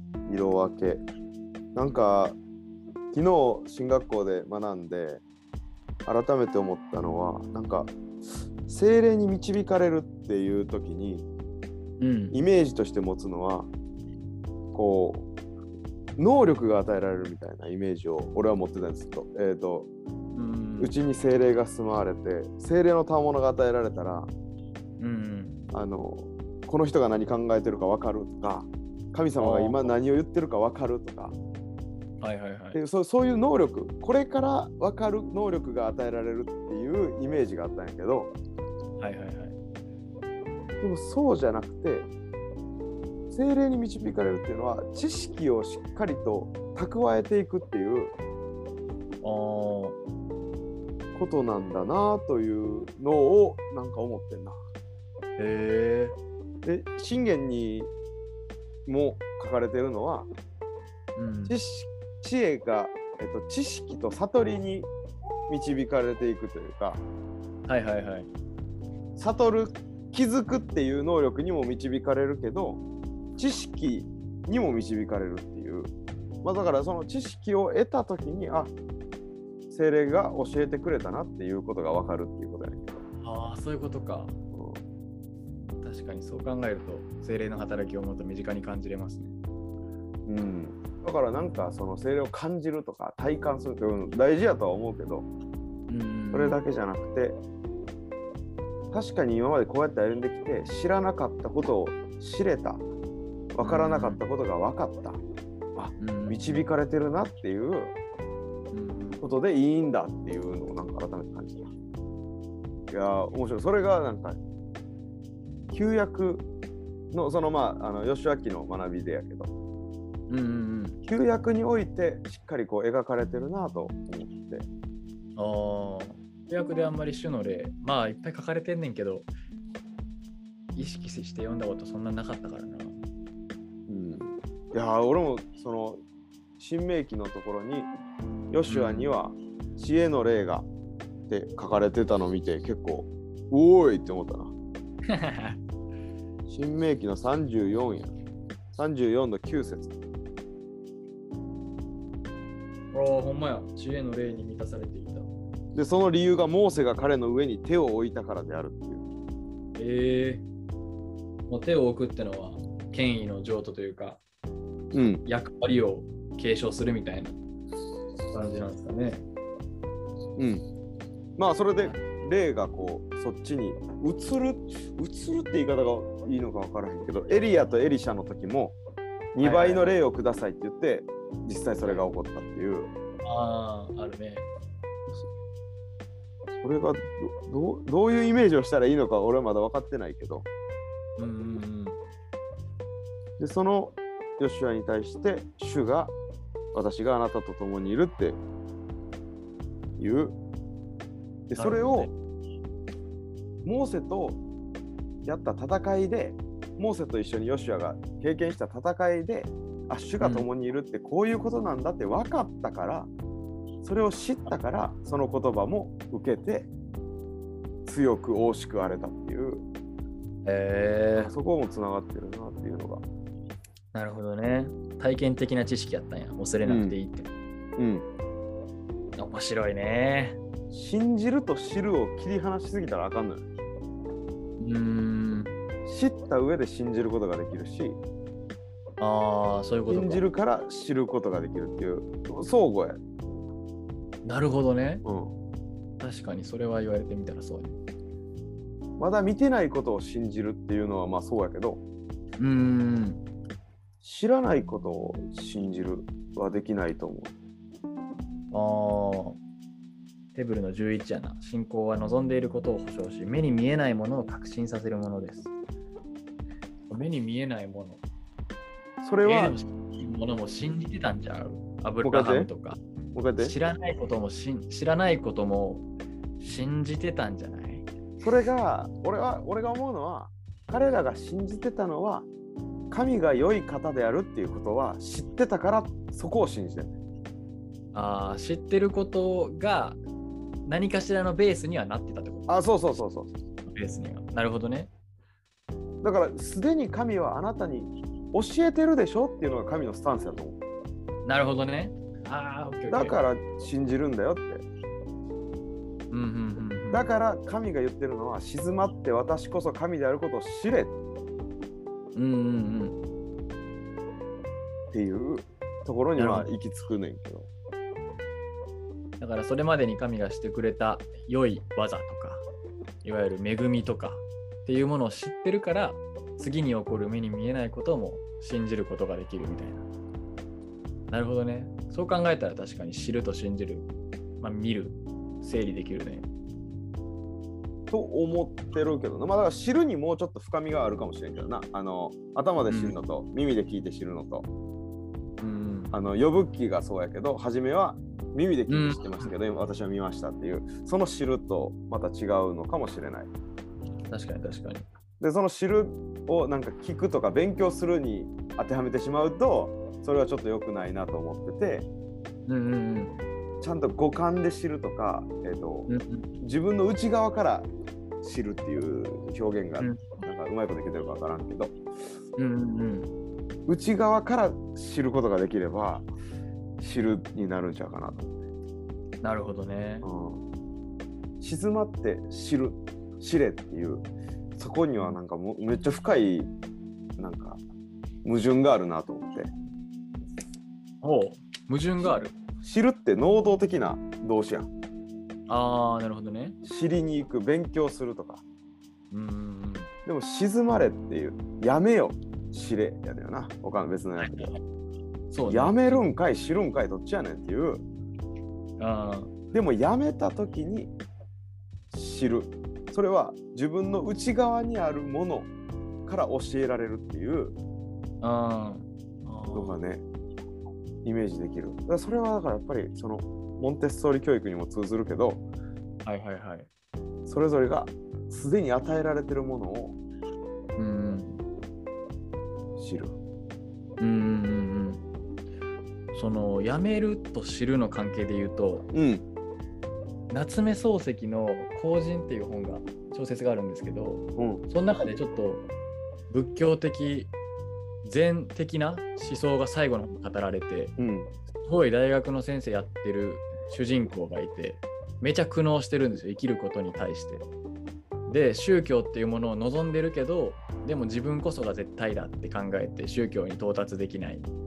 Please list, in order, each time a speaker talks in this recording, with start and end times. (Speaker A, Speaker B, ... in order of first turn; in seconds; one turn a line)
Speaker A: 0.3-1.1
Speaker A: 1.7-2.4
Speaker A: 3.1-5.2
Speaker A: 6.0-7.9
Speaker A: 8.7-11.3
Speaker B: 12.0-12.4
Speaker A: 12.3-13.7
Speaker A: 14.7-15.3
Speaker A: 16.2-19.9
Speaker B: 20.3-20.9
Speaker A: 20.8-24.3
Speaker B: 25.0-25.6
Speaker A: 25.7-31.4
Speaker B: 29.3-29.9
Speaker B: 32.2-32.8
Speaker A: 32.7-38.3
Speaker B: 39.0-39.6
Speaker A: 40.8-42.1
Speaker A: 43.3-48.1
Speaker B: 49.2-50.0
Speaker A: 51.1-54.6
Speaker B: 55.4-56.1
Speaker A: 56.6-57.9
Speaker A: 58.9-60.3
Speaker B: 61.1-61.6
Speaker A: 61.5-64.9
Speaker A: 65.5-67.0
Speaker B: 67.7-68.3
Speaker A: 69.2-72.8
Speaker A: 73.4-75.9
Speaker A: 76.4-78.7
Speaker A: 79.7-83.0
Speaker B: 83.2-84.3
Speaker A: 84.5-84.8
Speaker B: 85.8-89.3
Speaker A: 90.2-95.3
Speaker B: 95.9-96.6
Speaker A: 96.3-97.4
Speaker A: 98.9-102.8
Speaker A: 103.5-105.2
Speaker B: 103.6-104.2
Speaker A: 105.8-107.9
Speaker B: 106.0-106.7
Speaker B: 108.7-109.2
Speaker A: 109.2-111.7
Speaker A: 112.9-114.4
Speaker A: 115.7-116.5
Speaker A: 117.1-119.5
Speaker B: 120.3-121.0
Speaker A: 121.1-124.7
Speaker B: 125.4-129.3
Speaker B: 130.7-133.0
Speaker A: 133.9-136.0
Speaker A: 136.6-137.9
Speaker A: 138.5-140.7
Speaker B: 138.7-139.2
Speaker A: 141.3-144.5
Speaker B: 145.1-145.6
Speaker A: 146.5-148.1
Speaker A: 148.7-149.9
Speaker B: 152.9-155.3
Speaker A: 155.7-159.0
Speaker B: 159.8-160.4
Speaker B: 161.5-164.2
Speaker A: 164.9-165.2
Speaker B: 165.2-167.4
Speaker B: 168.3-169.2
Speaker A: 170.4-170.6
Speaker A: 171.4-178.8
Speaker A: 179.3-182.9
Speaker B: 179.4-180.0
Speaker B: 181.8-182.1
Speaker B: 183.2-184.5
Speaker A: 186.6-190.4
Speaker B: 191.2-192.0
Speaker A: 193.4-196.1
Speaker A: 196.7-198.4
Speaker A: 200.0-200.4
Speaker A: 201.5-202.1
Speaker B: 201.6-202.1
Speaker A: 203.6-204.4
Speaker A: 205.2-213.1
Speaker B: 210.2-210.5
Speaker A: 213.8-216.7
Speaker A: 217.8-219.7
Speaker B: 220.4-221.3
Speaker A: 221.1-223.0
Speaker B: 223.9-227.3
Speaker A: 226.6-226.9
Speaker A: 227.8-228.1
Speaker B: 229.2-230.4
Speaker A: 230.7-233.5
Speaker B: 234.6-235.5
Speaker A: 235.8-238.0
Speaker B: 239.0-240.2
Speaker A: 239.9-243.4
Speaker B: 244.2-245.0
Speaker A: 245.0-245.3
Speaker B: 246.0-247.8
Speaker A: 249.0-251.8
Speaker B: 252.4-253.2
Speaker A: 254.0-257.4
Speaker B: 258.5-259.4
Speaker B: 260.3-265.5
Speaker B: 266.9-268.0
Speaker A: 269.0-269.6
Speaker B: 269.2-272.8
Speaker A: 272.0-272.5
Speaker A: 273.1-273.5
Speaker B: 273.4-275.9
Speaker B: 276.4-277.9
Speaker A: 278.2-282.3
Speaker A: 282.9-286.9
Speaker B: 287.9-290.0
Speaker B: 290.6-292.5
Speaker A: 292.5-293.3
Speaker B: 293.7-294.9
Speaker A: 296.0-300.6
Speaker B: 301.2-303.2
Speaker A: 302.9-304.6
Speaker B: 306.1-307.1
Speaker A: 306.9-310.9
Speaker B: 312.1-313.0
Speaker A: 314.9-317.5
Speaker B: 316.1-316.5
Speaker B: 319.2-322.4
Speaker B: 323.0-329.9
Speaker B: 331.1-333.9
Speaker B: 334.4-336.3
Speaker A: 337.9-344.5
Speaker B: 342.7-342.9
Speaker B: 345.4-345.9
Speaker A: 345.9-353.3
Speaker B: 348.7-349.3
Speaker B: 354.1-354.9
Speaker A: 355.2-361.9
Speaker B: 362.5-363.1
Speaker A: 363.6-365.9
Speaker B: 365.9-366.2
Speaker A: 366.4-367.7
Speaker A: 368.2-371.8
Speaker B: 369.8-370.2
Speaker B: 372.4-373.1
Speaker A: 373.7-376.1
Speaker A: 376.8-378.4
Speaker B: 379.2-380.1
Speaker A: 380.0-380.4
Speaker A: 381.4-386.5
Speaker A: 387.2-387.6
Speaker A: 388.2-389.5
Speaker B: 391.0-392.3
Speaker A: 392.0-394.7
Speaker B: 395.5-396.6
Speaker A: 396.6-398.4
Speaker B: 399.1-399.9
Speaker A: 400.1-404.5
Speaker B: 404.2-404.6
Speaker B: 405.3-406.1
Speaker A: 405.5-407.8
Speaker B: 408.8-409.3
Speaker A: 409.5-410.9
Speaker A: 411.9-415.5
Speaker A: 416.1-417.6
Speaker B: 418.2-419.8
Speaker A: 419.5-420.0
Speaker A: 421.0-425.4
Speaker B: 426.0-426.7
Speaker A: 427.3-430.0
Speaker B: 430.8-431.4
Speaker A: 432.8-433.2
Speaker B: 434.0-435.0
Speaker B: 436.1-438.9
Speaker A: 438.9-439.2
Speaker B: 440.3-445.7
Speaker A: 444.4-444.6
Speaker B: 446.3-447.3
Speaker B: 448.0-450.9
Speaker A: 451.0-451.3
Speaker B: 451.6-457.4
Speaker B: 458.3-464.5